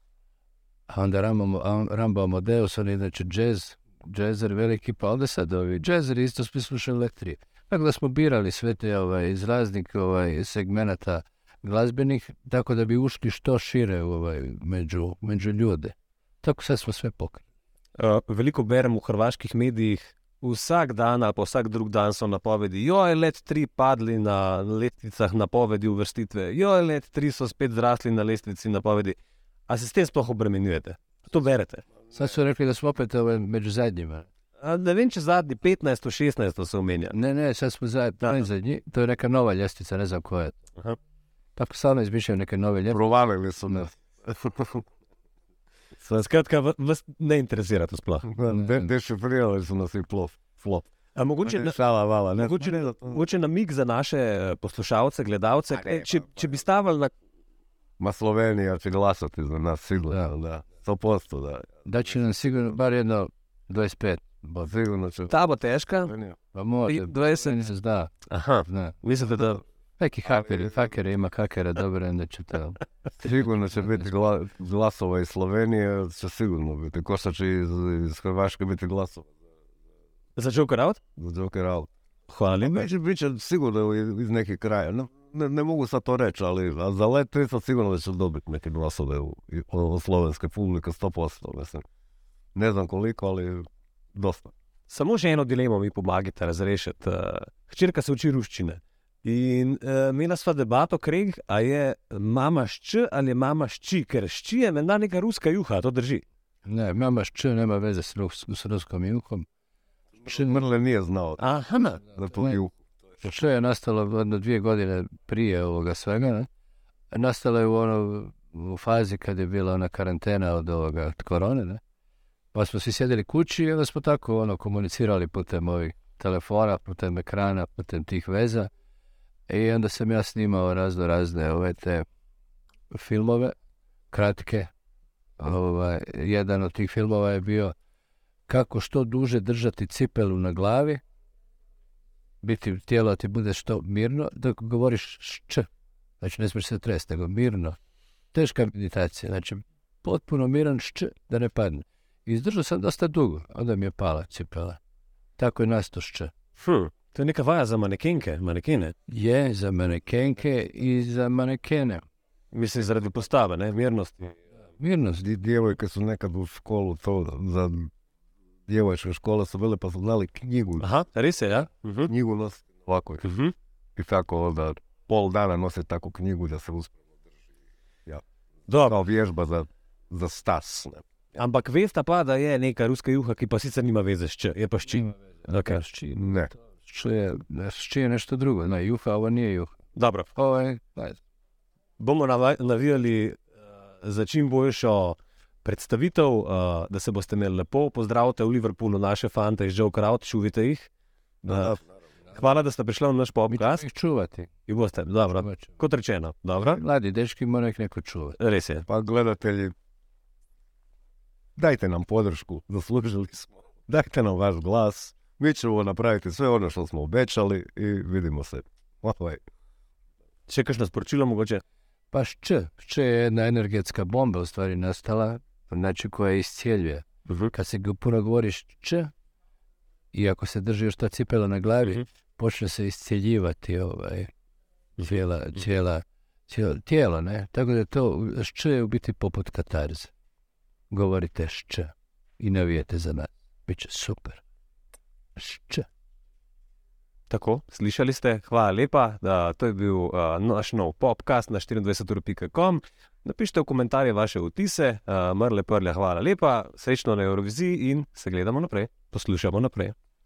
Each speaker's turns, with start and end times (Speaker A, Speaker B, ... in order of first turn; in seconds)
Speaker A: 0.9-17.4, 32.1-34.3, 37.1-40.5, 41.6-43.0, 48.5-48.9, 61.9-64.6, 66.5-68.1, 68.7-69.0, 70.0-72.8, 106.7-109.5, 110.2-110.6, 113.2-116.5, 117.1-121.8, 122.5-128.7, 129.5-132.1, 132.9-133.6, 134.1-134.7, 135.4-137.7, 138.5-141.0, 142.4-145.7, 146.2-147.8, 148.3-154.8, 155.4-156.3, 159.1-162.0, 164.8-165.2, 185.6-186.2, 186.8-189.7, 190.3-191.2, 203.5-204.5, 205.4-205.7, 206.8-208.4, 222.1-229.1, 230.1-234.3, 235.0-240.1, 240.9-244.4, 245.4-245.9
Speaker B: 18.0-29.2, 29.7-31.8, 34.6-37.2, 46.0-48.3, 51.1-51.8, 52.4-57.1, 65.3-66.2, 66.9-67.6, 68.3-69.6, 80.4-81.0, 82.3-82.8, 94.9-106.2, 111.4-112.0, 156.6-158.9, 162.5-164.4, 170.8-172.1, 173.2-173.5, 178.7-179.0, 181.4-185.8, 189.9-190.3, 192.0-193.4, 194.0-200.9, 201.4-201.8, 202.3-203.8, 204.7-206.8, 208.4-208.9, 220.5-221.6, 227.3-227.5, 247.3-259.9
Speaker C: 42.9-44.8, 48.3-50.9, 51.5-53.2, 58.0-61.8, 64.6-65.3, 66.1-66.4, 73.2-79.3, 81.2-81.9, 82.6-91.8, 92.5-94.5, 110.2-111.4, 112.0-112.7, 165.2-167.9, 168.7-170.9, 172.1-173.3, 174.0-176.9, 178.8-181.0, 186.1-186.5, 208.9-209.7, 211.6-219.4